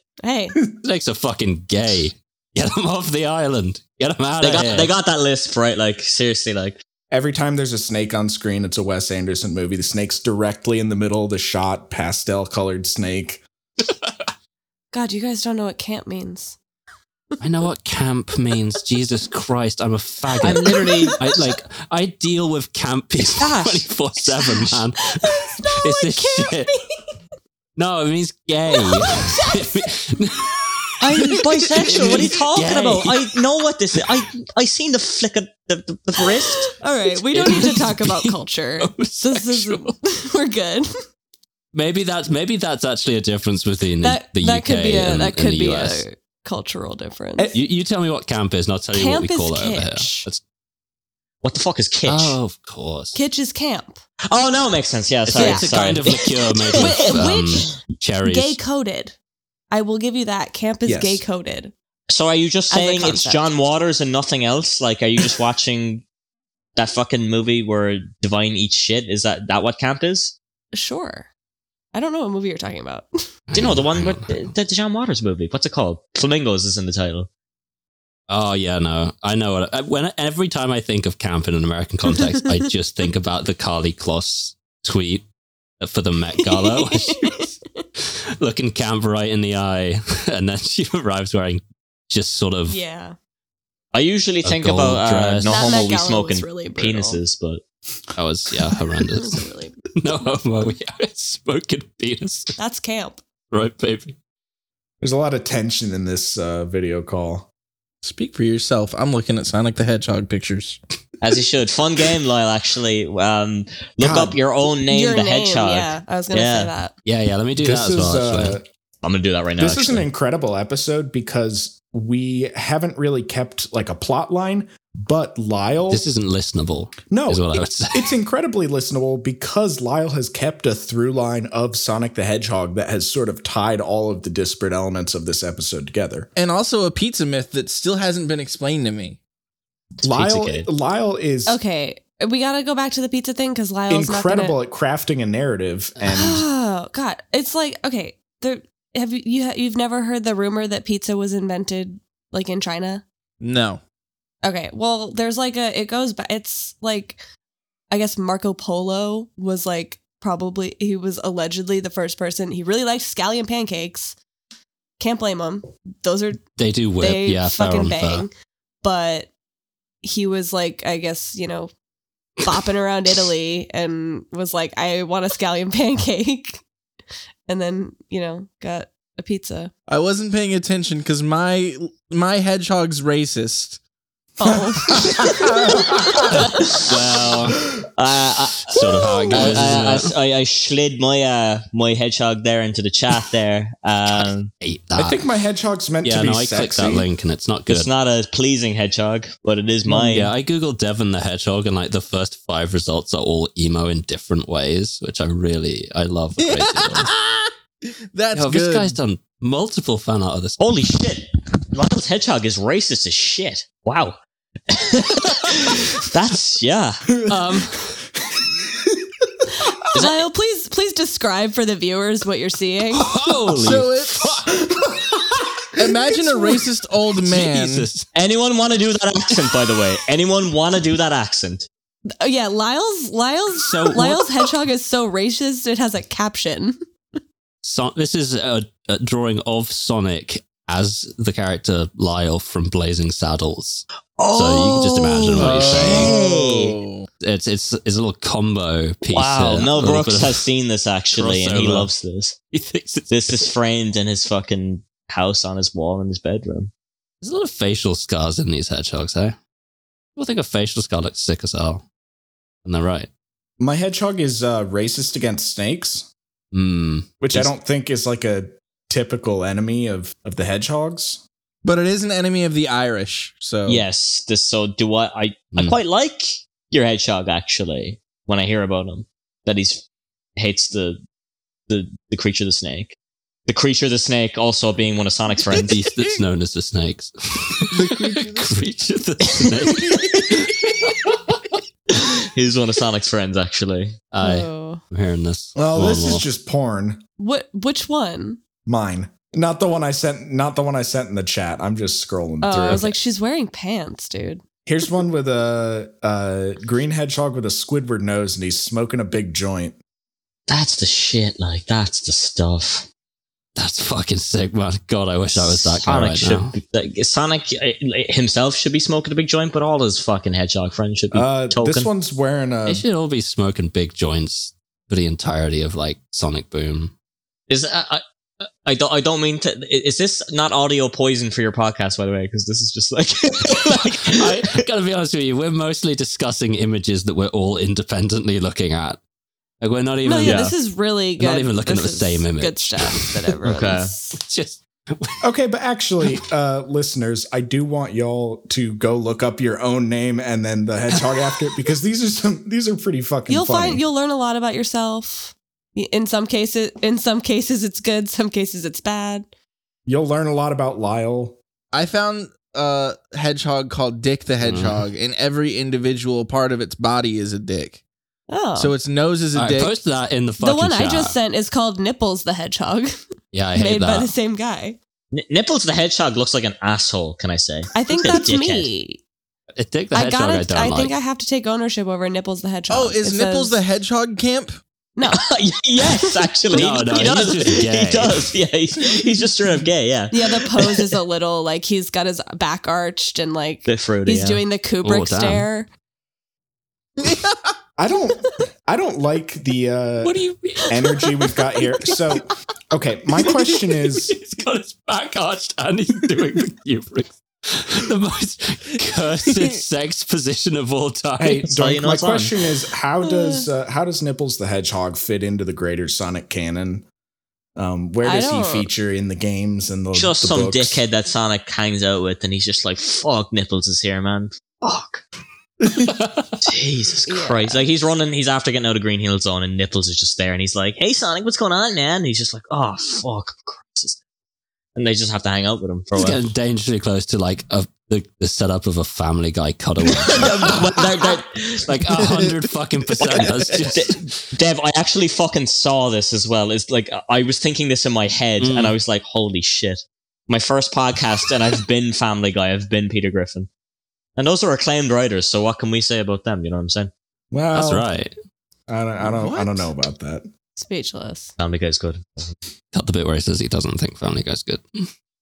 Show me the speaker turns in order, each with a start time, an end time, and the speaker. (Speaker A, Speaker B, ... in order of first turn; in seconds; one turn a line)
Speaker A: 0.2-0.6
Speaker B: 0.8-4.9
Speaker C: 4.4-6.8
Speaker D: 7.1-13.4
Speaker A: 14.9-16.6
Speaker B: 17.4-26.7
Speaker C: 20.4-21.2
Speaker C: 23.4-23.9
Speaker A: 25.2-26.8
Speaker B: 27.8-33.4
Speaker A: 28.7-29.8
Speaker C: 31.0-36.7
Speaker B: 36.5-39.9
Speaker A: 36.8-40.9
Speaker B: 41.7-46.0
Speaker A: 44.0-47.5
Speaker D: 47.4-47.6
Speaker B: 47.5-50.4
Speaker A: 48.9-50.3
Speaker C: 51.4-52.4
Speaker B: 52.0-53.2
Speaker A: 53.1-54.0
Speaker C: 54.3-57.1
Speaker B: 55.2-58.6
Speaker A: 55.3-56.2
Speaker A: 56.7-57.7
Speaker A: 58.2-59.1
Speaker A: 59.7-61.7
Speaker D: 60.8-61.2
Speaker C: 62.1-66.0
Speaker A: 62.7-63.5
Speaker C: 66.8-70.3
Speaker A: 70.7-71.3
Speaker A: 71.9-73.1
Speaker B: 73.5-74.5
Speaker C: 73.5-77.3
Speaker B: 78.3-85.2
Speaker B: 85.8-87.5
Speaker A: 86.4-87.8
Speaker B: 88.4-92.8
Speaker A: 92.7-93.2
Speaker C: 93.9-97.6
Speaker B: 94.4-95.8
Speaker A: 95.5-97.2
Speaker B: 98.2-99.5
Speaker A: 99.2-99.7
Speaker B: 100.0-102.5
Speaker A: 102.6-103.2
Speaker B: 103.5-104.2
Speaker D: 105.0-107.5
Speaker E: 108.0-110.8
Speaker C: 111.2-116.7
Speaker D: 114.0-114.4
Speaker A: 114.9-116.9
Speaker B: 117.0-118.6
Speaker D: 117.6-118.7
Speaker C: 119.0-120.1
Speaker D: 119.6-126.1
Speaker B: 125.9-128.1
Speaker D: 127.1-136.3
Speaker E: 136.3-139.2
Speaker D: 140.0-141.6
Speaker C: 140.0-140.7
Speaker A: 141.4-144.6
Speaker D: 143.9-146.4
Speaker A: 146.1-153.0
Speaker E: 153.4-153.8
Speaker A: 154.4-157.2
Speaker A: 157.9-164.2
Speaker A: 165.0-166.4
Speaker B: 166.6-168.2
Speaker A: 167.0-169.3
Speaker A: 170.0-171.7
Speaker A: 172.4-176.6
Speaker A: 177.5-179.7
Speaker E: 179.9-183.8
Speaker A: 184.4-185.3
Speaker D: 184.9-186.3
Speaker C: 186.7-188.8
Speaker B: 186.8-187.5
Speaker B: 188.7-190.1
Speaker A: 189.1-189.5
Speaker C: 189.3-194.5
Speaker B: 194.1-195.2
Speaker D: 194.9-197.1
Speaker B: 196.0-197.9
Speaker C: 197.7-200.3
Speaker B: 200.0-207.1
Speaker E: 206.4-207.5
Speaker E: 208.1-209.0
Speaker B: 208.3-210.6
Speaker C: 210.6-214.2
Speaker C: 214.7-217.0
Speaker D: 217.2-217.7
Speaker B: 217.3-217.9
Speaker D: 218.3-219.0
Speaker A: 219.9-223.1
Speaker C: 219.9-220.2
Speaker B: 222.9-224.6
Speaker E: 223.5-224.4
Speaker D: 224.7-225.5
Speaker E: 225.8-227.9
Speaker B: 227.2-228.1
Speaker C: 228.1-231.7
Speaker A: 232.2-236.8
Speaker B: 233.6-234.2
Speaker B: 237.6-246.1
Speaker C: 244.2-246.8
Speaker E: 245.4-247.1
Speaker B: 247.2-250.4
Speaker C: 249.1-252.3
Speaker B: 251.1-251.9
Speaker B: 252.5-253.5
Speaker C: 253.1-256.7
Speaker B: 257.2-259.4
Speaker B: 260.1-261.8
Speaker B: 262.6-263.1
Speaker D: 263.6-266.1
Speaker B: 266.5-267.5
Speaker D: 267.2-271.2
Speaker E: 271.6-273.8
Speaker C: 273.7-279.8
Speaker C: 280.4-281.0
Speaker C: 281.7-282.9
Speaker C: 283.5-285.8
Speaker B: 285.7-291.4
Speaker E: 287.7-288.5
Speaker C: 291.9-294.0
Speaker B: 294.1-296.2
Speaker A: 294.2-294.8
Speaker D: 295.6-297.0
Speaker A: 297.2-298.4
Speaker D: 298.6-302.9
Speaker A: 302.4-304.4
Speaker B: 302.6-302.9
Speaker D: 304.6-309.8
Speaker C: 310.5-312.9
Speaker B: 313.6-316.6
Speaker C: 315.3-321.9
Speaker D: 321.1-322.8
Speaker B: 322.6-326.9
Speaker C: 327.5-334.6
Speaker B: 334.1-339.0
Speaker B: 339.6-340.5
Speaker A: 340.0-344.2
Speaker C: 340.2-340.5
Speaker B: 341.2-343.3
Speaker C: 343.4-343.9
Speaker B: 344.1-345.2
Speaker D: 345.2-353.8
Speaker A: 353.3-359.3
Speaker D: 359.9-361.4
Speaker E: 361.7-367.8
Speaker B: 364.4-364.9
Speaker A: 368.3-368.7
Speaker E: 368.6-369.8
Speaker B: 369.3-371.1
Speaker A: 370.4-372.9
Speaker B: 373.3-374.1
Speaker A: 373.5-374.8
Speaker C: 375.1-378.7
Speaker A: 377.7-379.0
Speaker B: 379.6-380.9
Speaker A: 379.9-383.5
Speaker E: 382.7-384.6
Speaker A: 384.9-385.2
Speaker C: 385.1-390.9
Speaker B: 386.5-388.3
Speaker A: 390.1-395.7
Speaker C: 393.6-394.4
Speaker B: 394.8-395.5
Speaker D: 397.8-400.2
Speaker B: 400.0-401.0
Speaker D: 400.7-404.1
Speaker B: 403.6-411.5
Speaker D: 411.2-416.8
Speaker C: 411.4-412.3
Speaker A: 413.0-413.4
Speaker D: 417.6-420.8
Speaker A: 418.0-418.7
Speaker C: 419.9-425.0
Speaker B: 425.9-426.2
Speaker C: 426.4-434.0
Speaker A: 427.1-427.6
Speaker C: 434.8-436.2
Speaker B: 435.9-440.5
Speaker C: 440.0-441.8
Speaker B: 441.7-444.3
Speaker E: 442.0-442.4
Speaker C: 443.0-453.5
Speaker E: 443.0-443.7
Speaker B: 448.4-448.7
Speaker C: 454.2-456.9
Speaker D: 457.3-457.9
Speaker B: 457.5-458.1
Speaker D: 458.7-460.3
Speaker E: 459.0-459.7
Speaker A: 460.6-461.3
Speaker C: 461.4-462.4
Speaker B: 462.7-464.9